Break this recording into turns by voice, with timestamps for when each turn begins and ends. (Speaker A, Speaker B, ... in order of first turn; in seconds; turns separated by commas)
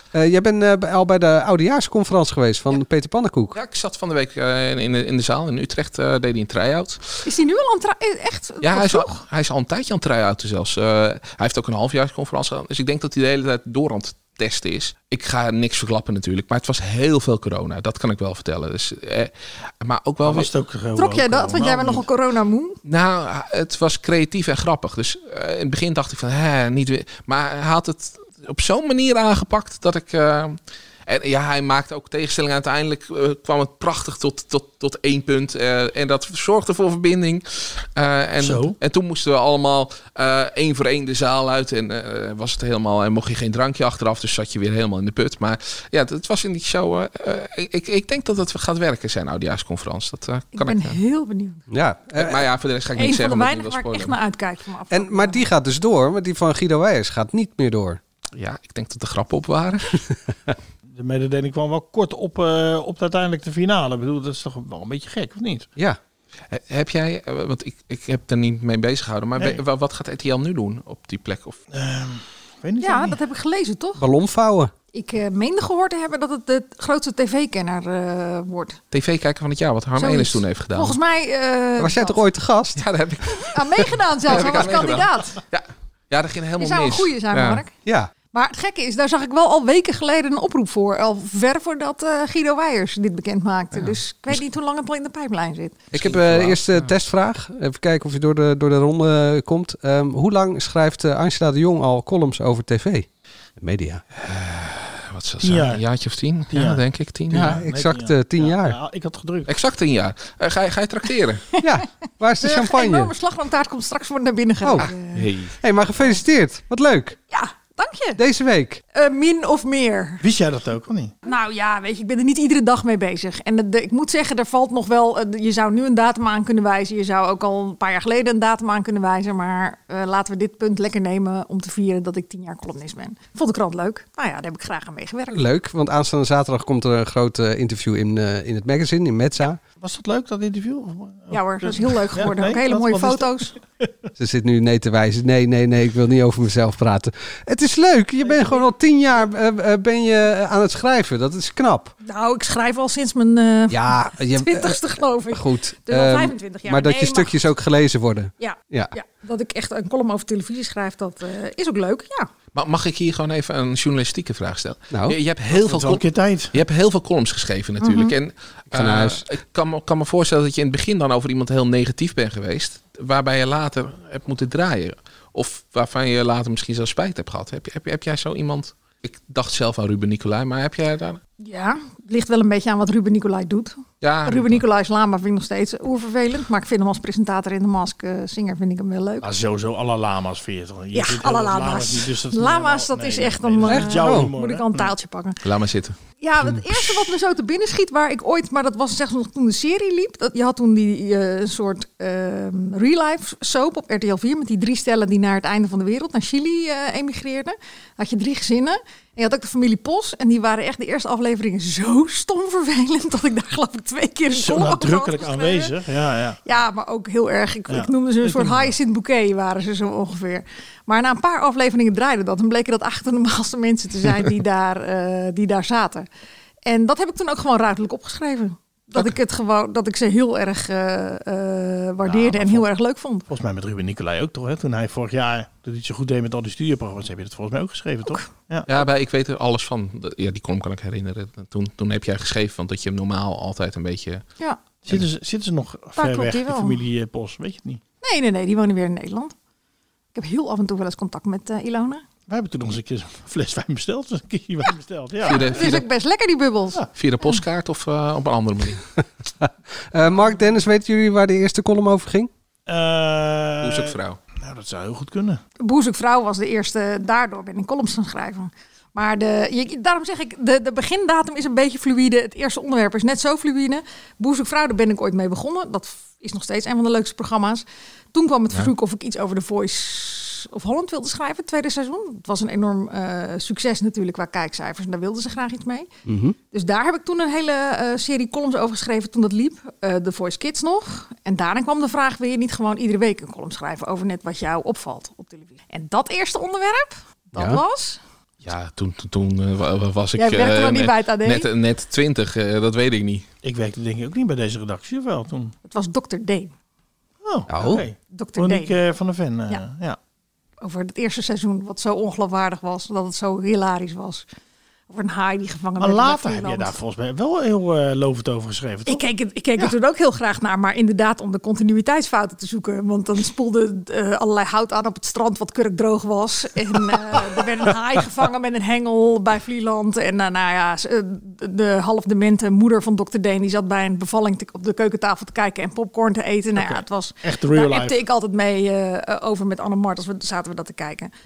Speaker A: 0.1-3.6, Speaker B: 3.5-7.2, Speaker C: 7.2-9.2, Speaker B: 8.6-20.5, Speaker D: 20.2-22.0, Speaker C: 20.9-22.8, Speaker B: 22.8-51.0, Speaker D: 38.4-38.7, Speaker C: 50.5-51.6, Speaker A: 51.7-52.5, Speaker B: 52.1-54.1, Speaker C: 52.9-55.5, Speaker A: 54.9-58.0, Speaker B: 58.3-60.0, Speaker D: 60.9-65.7, Speaker B: 66.5-71.6, Speaker D: 71.7-73.2, Speaker C: 72.8-74.0, Speaker A: 74.0-74.7, Speaker C: 74.9-78.8, Speaker B: 78.9-81.0, Speaker C: 80.0-82.2, Speaker A: 81.8-82.8, Speaker B: 82.8-87.6, Speaker C: 83.4-85.4, Speaker C: 86.6-87.7, Speaker C: 88.3-95.9, Speaker A: 95.9-103.1, Speaker B: 95.9-96.9, Speaker A: 103.6-104.0, Speaker B: 104.2-107.6, Speaker D: 105.4-105.8, Speaker D: 106.5-109.5, Speaker A: 107.3-108.8, Speaker B: 109.5-111.4, Speaker A: 111.6-113.1, Speaker C: 112.4-115.2, Speaker A: 114.6-114.9, Speaker B: 114.8-115.5, Speaker A: 115.6-117.2, Speaker C: 117.3-118.2, Speaker A: 118.2-118.8, Speaker C: 118.9-120.2, Speaker D: 120.2-121.1, Speaker C: 121.2-135.4, Speaker A: 135.3-139.6, Speaker D: 139.8-143.9, Speaker C: 141.3-143.5, Speaker A: 144.2-151.9, Speaker C: 152.0-157.4, Speaker A: 153.7-158.9, Speaker C: 158.4-162.3, Speaker B: 162.5-181.2, Speaker A: 164.9-165.2, Speaker D: 165.5-166.5, Speaker C: 167.8-168.1, Speaker A: 168.7-169.2, Speaker C: 181.4-189.3, Speaker B: 184.0-184.6, Speaker D: 189.2-194.9, Speaker C: 190.9-195.4, Speaker A: 193.7-194.3, Speaker B: 195.4-195.9, Speaker C: 196.2-215.7, Speaker D: 214.3-216.4, Speaker C: 216.4-226.1, Speaker D: 217.7-218.7, Speaker C: 226.7-233.2, Speaker D: 232.0-232.7, Speaker D: 233.3-238.7, Speaker B: 238.7-244.2, Speaker D: 244.8-247.8, Speaker C: 245.9-246.8, Speaker C: 248.0-249.3, Speaker C: 250.1-252.0, Speaker D: 252.3-255.8, Speaker C: 255.2-257.4, Speaker B: 255.2-255.8, Speaker B: 256.9-258.8, Speaker A: 259.4-262.3, Speaker D: 262.7-265.4, Speaker B: 263.6-264.2, Speaker C: 265.6-285.9, Speaker A: 286.1-286.4, Speaker C: 286.5-298.0, Speaker A: 297.3-297.6, Speaker B: 298.4-303.3, Speaker C: 300.2-301.5, Speaker D: 303.4-305.5, Speaker C: 305.6-306.5, Speaker D: 307.2-310.0, Speaker A: 307.5-307.9, Speaker C: 308.1-308.8, Speaker C: 310.6-314.2, Speaker C: 314.9-316.7, Speaker D: 315.8-319.0, Speaker C: 318.9-341.1, Speaker D: 336.6-338.0